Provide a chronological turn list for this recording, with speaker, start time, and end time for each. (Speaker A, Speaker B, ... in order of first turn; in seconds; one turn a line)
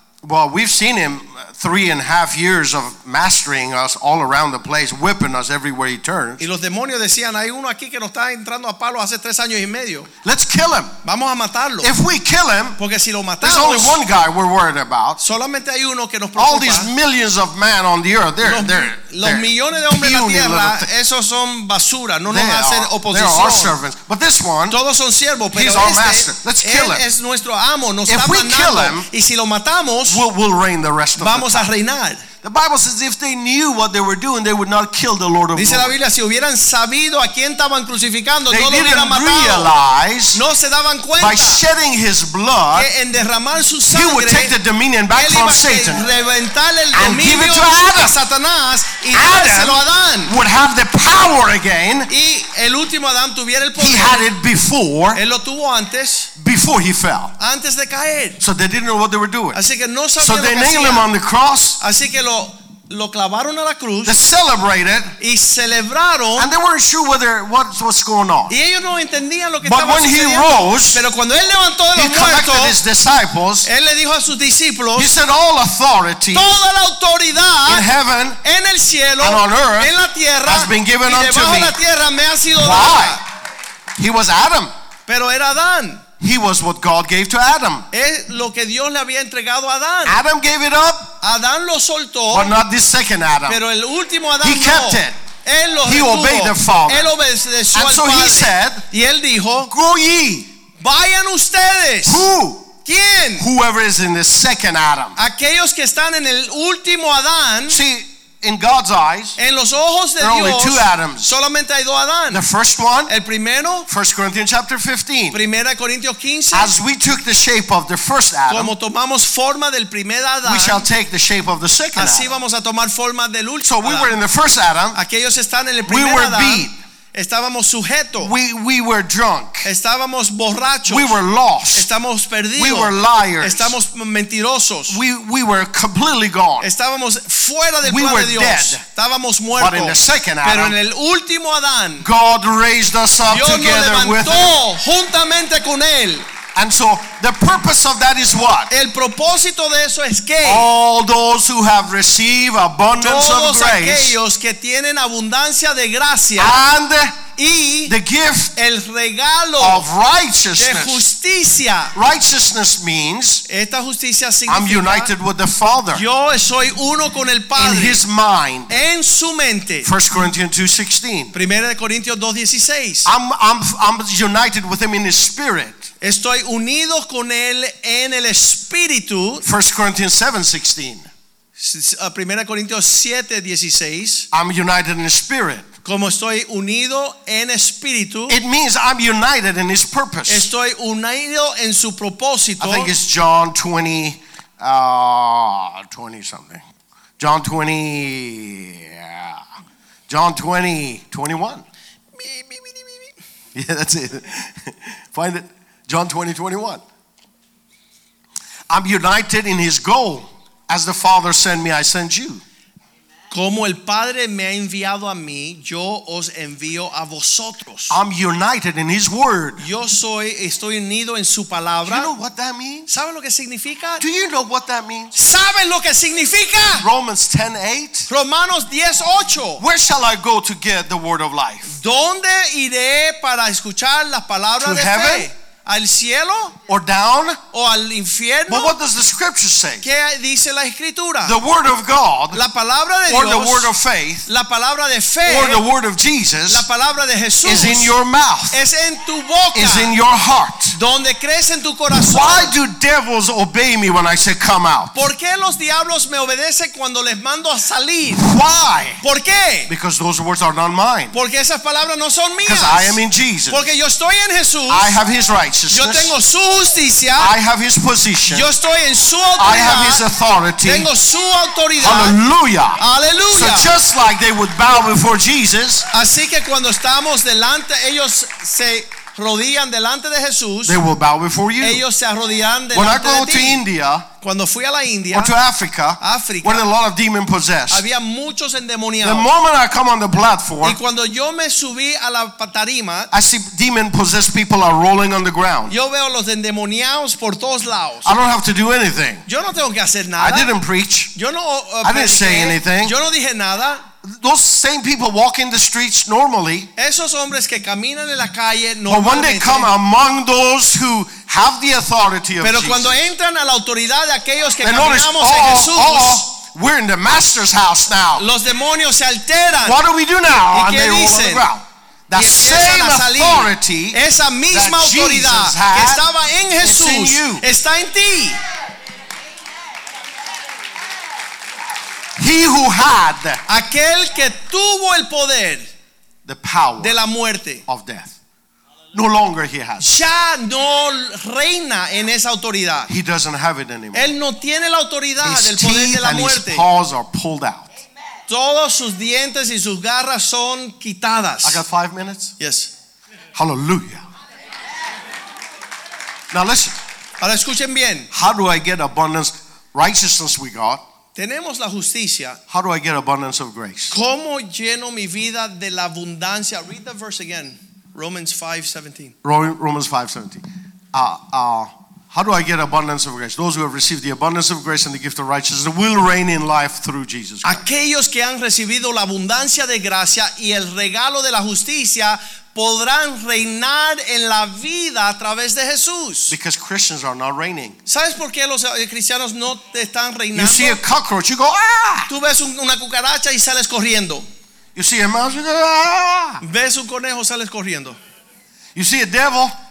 Speaker A: 0.2-6.4
Speaker B: 6.4-10.1
Speaker A: 10.2-11.0
Speaker B: 11.0-11.9
Speaker A: 11.8-12.8
Speaker B: 12.8-14.0
Speaker A: 13.4-15.2
Speaker B: 15.2-16.9
Speaker A: 16.4-20.9
Speaker B: 18.4-23.8
Speaker A: 22.3-24.8
Speaker B: 24.7-30.2
Speaker A: 25.5-27.1
Speaker A: 28.1-29.1
Speaker A: 30.1-31.7
Speaker B: 31.2-32.3
Speaker A: 32.4-36.0
Speaker B: 35.5-39.7
Speaker A: 38.5-40.4
Speaker B: 40.3-41.6
Speaker A: 41.2-42.9
Speaker B: 42.7-44.5
Speaker A: 43.9-46.1
Speaker B: 45.1-50.4
Speaker A: 46.9-48.2
Speaker A: 49.1-52.1
Speaker B: 52.1-54.2
Speaker A: 53.8-55.2
Speaker B: 55.1-56.3
Speaker A: 56.4-57.4
Speaker B: 57.4-58.4
Speaker A: 58.4-59.6
Speaker B: 59.5-61.1
Speaker A: 60.2-61.8
Speaker B: 61.8-64.1
Speaker A: 64.0-65.2
Speaker B: 65.2-66.5
Speaker A: 66.4-68.6
Speaker B: 68.5-72.8
Speaker A: 69.6-71.0
Speaker A: 72.0-73.7
Speaker B: 73.7-75.1
Speaker A: 75.0-76.5
Speaker B: 76.3-77.9
Speaker A: 77.7-78.4
Speaker B: 78.4-83.2
Speaker A: 79.2-79.9
Speaker A: 80.5-81.8
Speaker A: 82.5-83.2
Speaker A: 84.0-84.7
Speaker B: 85.1-86.0
Speaker A: 86.2-87.9
Speaker B: 87.9-90.2
Speaker A: 90.0-91.1
Speaker B: 91.2-92.5
Speaker A: 92.3-93.6
Speaker B: 93.5-99.7
Speaker A: 94.4-95.2
Speaker A: 95.8-97.1
Speaker A: 97.7-98.8
Speaker A: 99.7-100.5
Speaker B: 100.8-102.3
Speaker A: 102.0-102.7
Speaker B: 102.8-103.5
Speaker A: 103.4-105.2
Speaker B: 105.2-107.8
Speaker A: 107.7-109.4
Speaker B: 109.4-112.4
Speaker A: 110.2-111.3
Speaker A: 112.3-113.1
Speaker B: 113.1-113.9
Speaker A: 113.9-115.4
Speaker B: 115.3-116.7
Speaker A: 116.5-118.7
Speaker B: 118.5-120.9
Speaker A: 120.4-122.3
Speaker B: 122.0-124.1
Speaker A: 123.7-125.0
Speaker B: 124.9-128.3
Speaker A: 125.9-126.8
Speaker A: 128.2-129.7
Speaker B: 129.6-131.2
Speaker A: 130.9-131.9
Speaker B: 131.7-135.0
Speaker A: 132.6-133.8
Speaker A: 134.9-136.7
Speaker B: 136.6-142.1
Speaker A: 137.8-138.8
Speaker A: 139.5-140.8
Speaker A: 142.0-144.6
Speaker B: 143.3-146.3
Speaker A: 146.6-148.7
Speaker B: 148.7-150.7
Speaker A: 150.4-154.2
Speaker B: 153.0-156.6
Speaker A: 156.4-157.2
Speaker B: 157.4-157.9
Speaker A: 157.9-158.6
Speaker B: 158.6-159.9
Speaker A: 159.6-161.0
Speaker B: 160.6-161.9
Speaker A: 161.9-163.4
Speaker B: 163.5-165.1
Speaker A: 164.5-166.1
Speaker B: 165.9-168.0
Speaker A: 167.6-168.7
Speaker B: 168.7-169.9
Speaker A: 169.8-171.3
Speaker B: 171.3-173.1
Speaker A: 173.1-175.9
Speaker B: 176.0-179.4
Speaker A: 179.4-181.1
Speaker B: 181.6-184.3
Speaker A: 184.3-185.7
Speaker B: 185.8-188.4
Speaker A: 188.3-190.5
Speaker B: 190.3-192.9
Speaker A: 192.6-196.7
Speaker A: 197.2-199.4
Speaker A: 200.1-201.6
Speaker B: 202.2-203.1
Speaker A: 203.5-206.8
Speaker A: 208.7-212.4
Speaker B: 213.3-218.0
Speaker A: 217.9-219.6
Speaker B: 219.6-222.1
Speaker A: 221.8-222.9
Speaker B: 222.9-224.0
Speaker A: 224.0-225.1
Speaker B: 225.1-226.9
Speaker A: 226.8-228.1
Speaker B: 228.1-229.6
Speaker A: 229.6-231.8
Speaker B: 231.7-236.6
Speaker A: 234.6-235.3
Speaker A: 236.7-237.4
Speaker B: 237.5-238.7
Speaker A: 238.5-239.9
Speaker B: 239.8-241.3
Speaker A: 241.2-242.4
Speaker B: 242.3-243.7
Speaker A: 243.1-244.3
Speaker B: 244.3-245.6
Speaker A: 245.2-246.7
Speaker B: 246.5-247.9
Speaker A: 247.4-248.6
Speaker B: 248.5-249.9
Speaker A: 249.5-250.8
Speaker B: 250.7-252.5
Speaker A: 251.9-255.0
Speaker B: 254.9-258.2
Speaker A: 258.1-259.0
Speaker B: 259.0-259.7
Speaker A: 259.7-261.1
Speaker B: 261.1-264.9
Speaker A: 262.4-263.6
Speaker A: 264.7-266.1
Speaker B: 265.7-267.3
Speaker A: 267.2-268.5
Speaker B: 268.3-270.1
Speaker A: 269.4-270.9
Speaker B: 270.6-272.2
Speaker A: 271.8-275.9
Speaker B: 272.8-273.7
Speaker B: 275.9-280.8
Speaker A: 280.6-281.8
Speaker B: 281.6-283.6
Speaker A: 282.7-284.1
Speaker B: 284.2-285.3
Speaker A: 285.1-287.9
Speaker B: 286.0-286.6
Speaker B: 287.7-289.3
Speaker A: 289.0-290.8
Speaker B: 290.6-293.1
Speaker A: 293.1-295.7
Speaker B: 295.7-298.1
Speaker A: 298.1-299.2
Speaker B: 299.3-300.5
Speaker A: 300.2-301.1
Speaker B: 301.1-303.9
Speaker A: 301.8-302.9
Speaker A: 304.0-306.7
Speaker B: 306.8-309.7
Speaker A: 308.9-313.1
Speaker B: 312.4-316.2
Speaker A: 314.6-318.3
Speaker B: 318.2-319.8
Speaker A: 319.6-324.0
Speaker B: 320.5-321.5
Speaker B: 322.1-328.4
Speaker A: 324.5-326.1
Speaker A: 326.6-327.4
Speaker A: 332.2-333.4
Speaker B: 333.5-335.7
Speaker A: 336.2-337.0
Speaker B: 336.8-337.6
Speaker A: 337.7-338.1
Speaker A: 338.9-339.9
Speaker B: 339.8-342.9
Speaker A: 342.9-344.1
Speaker B: 343.9-346.6
Speaker A: 345.2-347.7
Speaker B: 348.3-351.6
Speaker A: 351.4-352.3
Speaker B: 352.4-352.7
Speaker A: 353.4-354.1
Speaker A: 356.3-356.8
Speaker B: 357.2-358.1
Speaker A: 358.1-360.8
Speaker B: 361.2-362.4
Speaker A: 362.5-364.0
Speaker B: 363.9-369.1
Speaker A: 369.2-377.6
Speaker B: 377.4-386.4
Speaker A: 386.3-387.8
Speaker B: 387.9-390.8
Speaker A: 390.3-392.1
Speaker B: 392.1-394.3
Speaker A: 394.8-396.4
Speaker B: 396.4-398.0
Speaker A: 398.8-399.5